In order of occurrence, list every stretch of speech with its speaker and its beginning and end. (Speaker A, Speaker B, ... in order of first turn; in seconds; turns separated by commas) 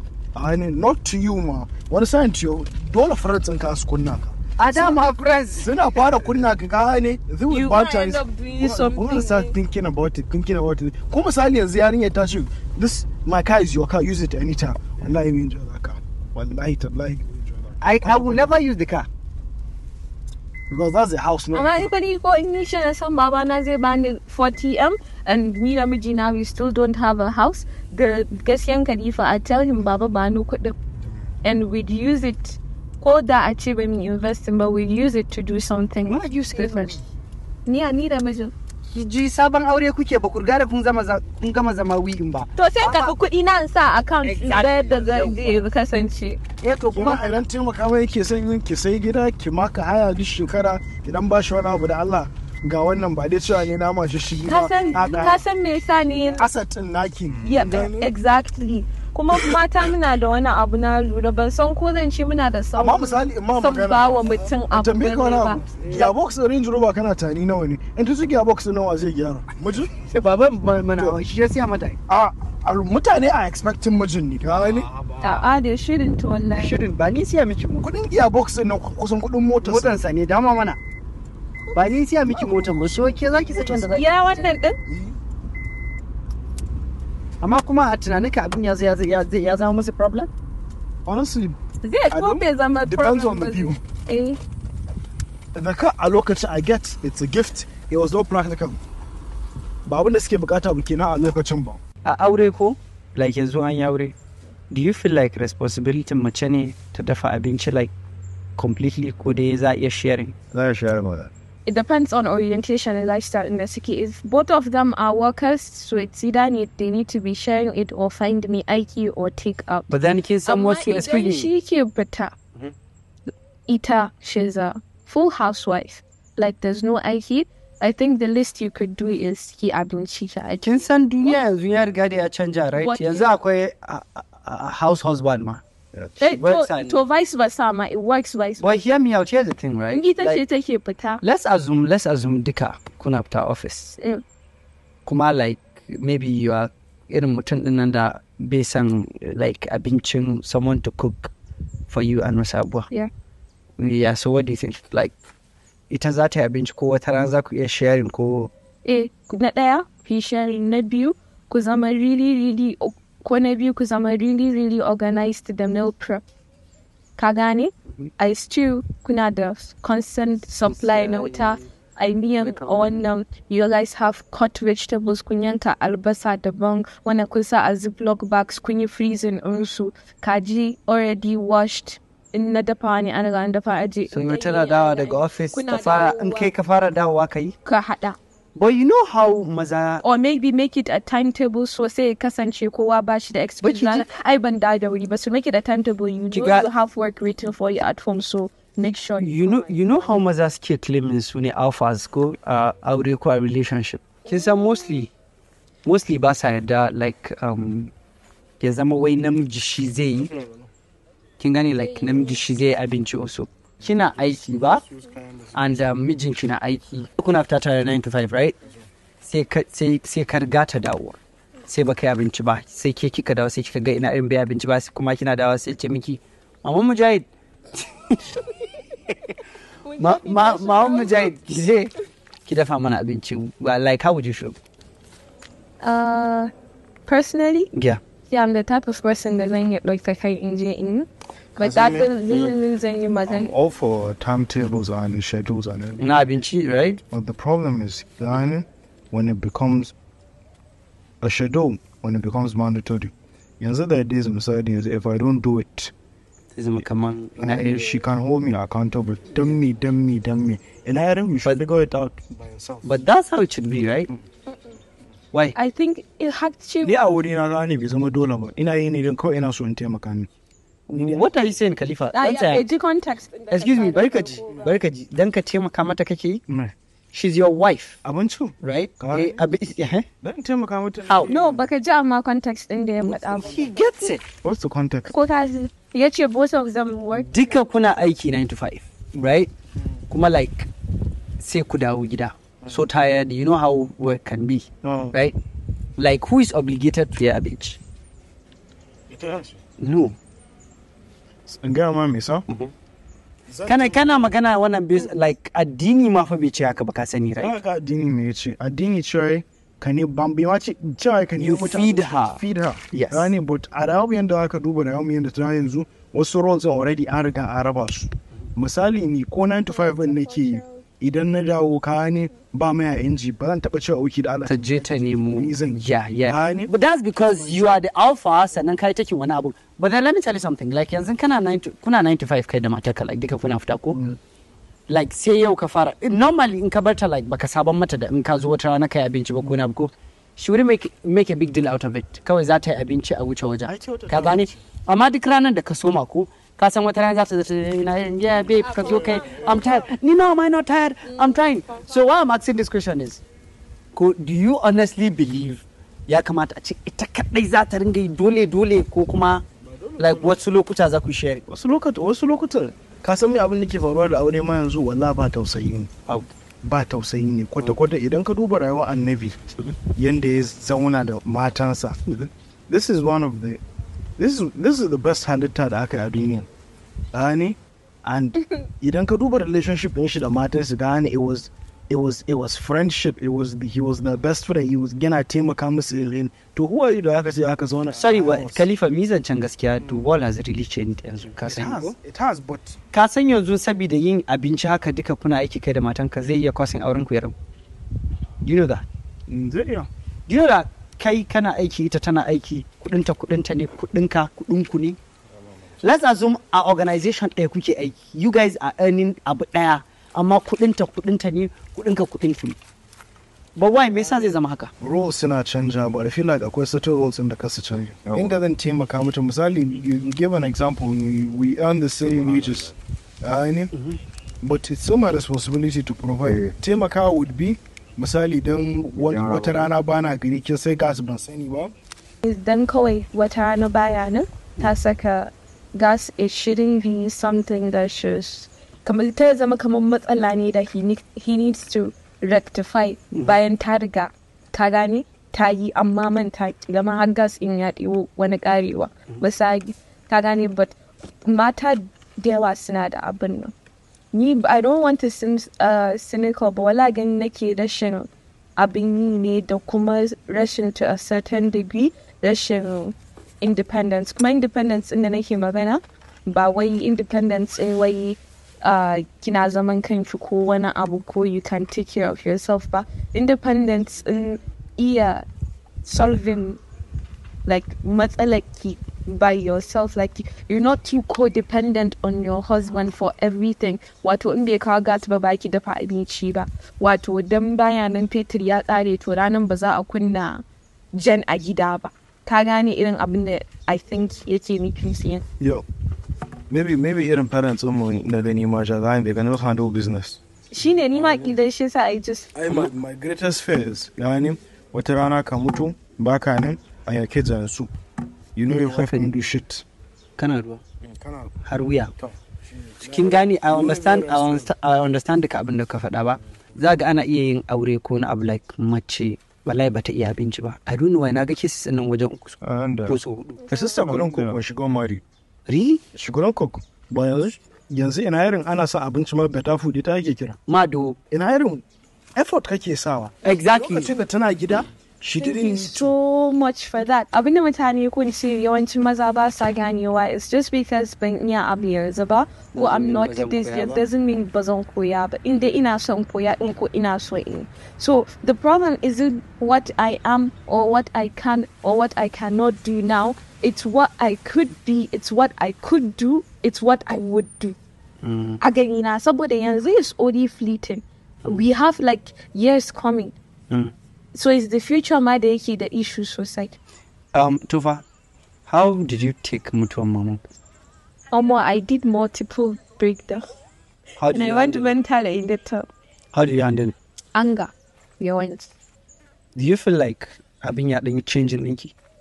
Speaker A: 0.3-5.0, Speaker B: 4.6-5.8, Speaker A: 5.6-18.6, Speaker C: 7.5-9.5, Speaker B: 17.8-19.1, Speaker A: 20.7-21.9, Speaker C: 21.5-30.7, Speaker C: 31.4-36.9, Speaker B: 36.1-37.0, Speaker C: 37.6-38.5, Speaker B: 38.9-43.1, Speaker C: 42.5-46.4, Speaker B: 44.2-45.6, Speaker B: 46.6-47.4, Speaker A: 46.9-55.4, Speaker C: 54.5-56.4, Speaker A: 56.4-58.1, Speaker C: 57.4-66.1, Speaker A: 62.8-69.9, Speaker B: 70.0-72.0, Speaker A: 72.1-74.9, Speaker C: 75.2-76.8, Speaker B: 76.5-77.9, Speaker A: 77.8-80.0, Speaker B: 79.6-80.8, Speaker B: 81.7-84.0, Speaker A: 82.2-84.0, Speaker C: 83.9-84.8, Speaker A: 84.9-85.1, Speaker B: 87.4-90.3, Speaker A: 91.0-93.8, Speaker C: 91.8-94.4, Speaker A: 95.5-98.8, Speaker A: 99.8-101.8, Speaker B: 102.0-104.1, Speaker B: 104.7-107.9, Speaker B: 108.6-110.3, Speaker D: 110.5-111.3, Speaker C: 111.7-119.9, Speaker B: 119.9-121.5, Speaker C: 120.5-122.3, Speaker C: 123.7-131.4, Speaker B: 130.6-135.6, Speaker C: 132.8-133.3, Speaker C: 136.2-138.8, Speaker B: 136.2-137.0, Speaker B: 138.6-140.4, Speaker C: 139.9-141.2, Speaker B: 141.2-144.0, Speaker B: 145.1-151.3, Speaker B: 151.9-152.9, Speaker B: 153.8-155.1, Speaker B: 155.9-158.5, Speaker C: 158.8-166.2, Speaker C: 167.2-186.5, Speaker B: 170.7-171.6, Speaker B: 172.4-172.9, Speaker B: 184.1-187.5, Speaker C: 187.6-188.2, Speaker B: 188.6-190.0, Speaker C: 190.0-200.1, Speaker B: 193.6-194.1, Speaker B: 196.3-196.7, Speaker B: 199.2-205.1, Speaker B: 205.8-207.9, Speaker B: 208.6-210.3, Speaker A: 210.3-210.7, Speaker B: 211.4-214.8, Speaker A: 214.9-215.5, Speaker B: 215.5-218.6, Speaker B: 219.2-228.4, Speaker B: 229.1-229.3, Speaker C: 229.9-231.3, Speaker B: 229.9-231.9, Speaker B: 232.4-234.6, Speaker C: 235.8-236.5, Speaker C: 237.1-237.7, Speaker B: 237.7-238.0, Speaker C: 238.3-243.5, Speaker A: 241.6-242.5, Speaker A: 243.3-246.0, Speaker B: 246.0-247.0, Speaker A: 247.1-249.9, Speaker A: 251.2-255.9, Speaker B: 256.5-257.8, Speaker A: 257.4-262.9, Speaker B: 262.8-264.1, Speaker C: 265.5-267.1, Speaker A: 266.8-270.3, Speaker B: 270.9-272.6, Speaker A: 270.9-271.2, Speaker C: 272.1-274.6, Speaker B: 273.5-276.4, Speaker A: 276.5-276.7, Speaker B: 277.1-278.0, Speaker A: 278.0-279.4, Speaker B: 278.6-280.1, Speaker A: 280.2-281.6, Speaker B: 281.0-281.3, Speaker C: 281.2-283.7, Speaker B: 283.0-284.2, Speaker A: 284.4-285.1, Speaker C: 285.1-287.5, Speaker B: 287.2-289.5, Speaker B: 290.1-290.7, Speaker B: 291.4-295.4, Speaker A: 294.8-295.1, Speaker B: 296.0-297.8, Speaker A: 299.1-299.6, Speaker B: 299.8-300.2, Speaker A: 301.5-302.4, Speaker A: 303.5-304.3, Speaker B: 303.6-307.5, Speaker A: 307.4-326.7, Speaker B: 311.4-313.3, Speaker B: 324.4-334.0, Speaker B: 334.9-353.2, Speaker A: 343.6-344.6, Speaker A: 348.8-349.6, Speaker B: 353.9-359.4, Speaker A: 359.6-360.4, Speaker B: 360.0-361.4, Speaker A: 361.5-365.9, Speaker A: 366.6-373.6, Speaker A: 374.2-376.5, Speaker A: 377.1-388.6, Speaker B: 387.9-391.9, Speaker A: 391.4-392.8, Speaker B: 392.9-397.3, Speaker B: 398.4-398.8, Speaker A: 399.3-399.9, Speaker B: 400.3-405.0, Speaker B: 405.8-412.6, Speaker B: 413.6-414.7, Speaker A: 414.8-423.7, Speaker D: 418.1-418.4, Speaker D: 422.2-422.7, Speaker B: 423.7-424.0, Speaker A: 424.4-431.7, Speaker D: 426.2-426.5, Speaker D: 429.0-429.7, Speaker C: 432.2-453.5, Speaker C: 454.1-475.2, Speaker C: 475.8-476.6, Speaker C: 477.4-495.2, Speaker A: 495.4-495.6, Speaker A: 496.5-500.2, Speaker C: 500.5-502.3, Speaker A: 500.9-501.3, Speaker A: 502.3-507.7, Speaker A: 508.3-509.6, Speaker B: 508.5-509.1, Speaker B: 510.2-510.6, Speaker A: 510.8-511.3, Speaker B: 511.4-511.9, Speaker A: 512.0-514.5, Speaker B: 512.8-524.0, Speaker D: 522.4-523.0, Speaker A: 523.5-525.0, Speaker D: 523.9-524.4, Speaker B: 525.5-525.8, Speaker A: 525.9-530.4, Speaker B: 530.5-531.0, Speaker A: 531.1-531.6, Speaker A: 532.1-535.9, Speaker B: 533.2-533.9, Speaker C: 535.2-557.5, Speaker B: 542.5-543.8, Speaker B: 558.0-558.4, Speaker C: 558.4-563.1, Speaker C: 564.1-566.6, Speaker B: 567.1-567.8, Speaker B: 568.5-570.2, Speaker C: 571.1-573.2, Speaker B: 574.0-574.7, Speaker C: 574.1-575.7, Speaker B: 576.1-576.7, Speaker C: 577.1-578.5, Speaker B: 579.3-581.7